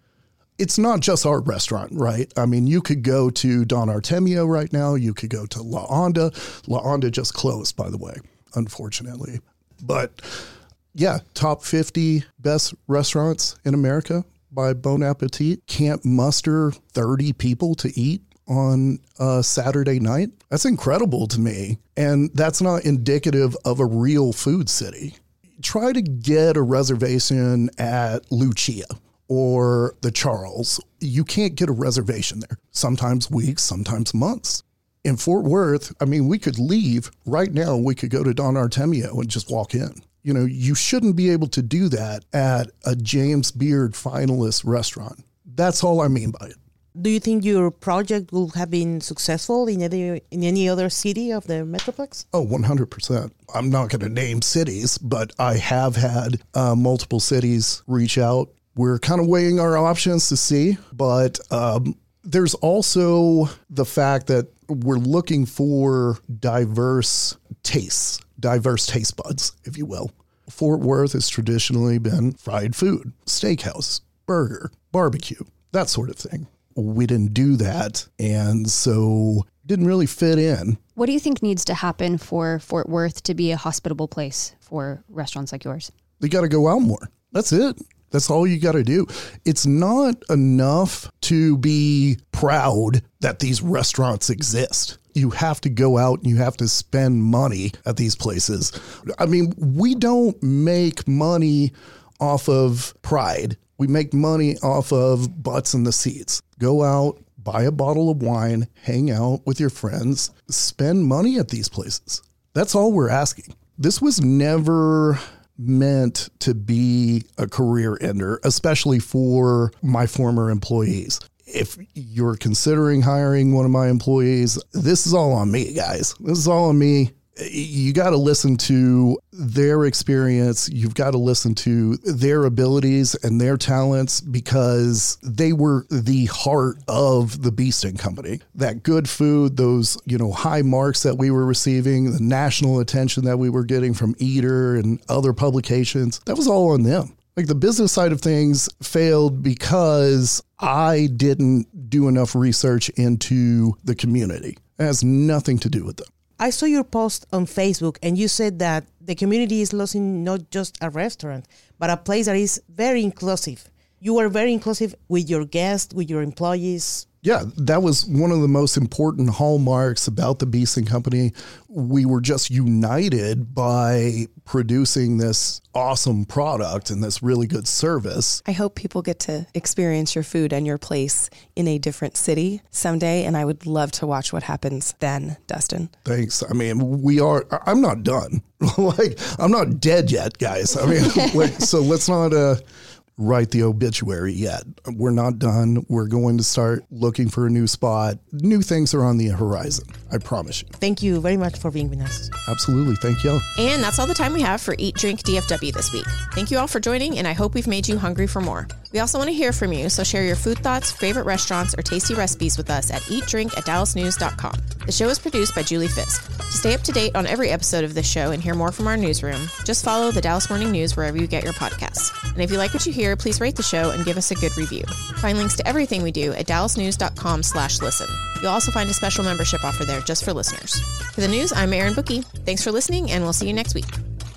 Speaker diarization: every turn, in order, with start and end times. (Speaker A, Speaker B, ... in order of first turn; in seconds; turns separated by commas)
Speaker A: 0.6-46.6, Speaker B: 46.9-52.2, Speaker A: 52.3-80.8, Speaker C: 81.0-85.9, Speaker A: 86.2-156.1, Speaker B: 156.4-167.1, Speaker A: 167.2-178.4, Speaker D: 178.4-185.9, Speaker A: 186.0-192.6, Speaker A: 193.2-200.7, Speaker B: 200.8-202.3, Speaker A: 202.4-203.4, Speaker E: 203.6-233.9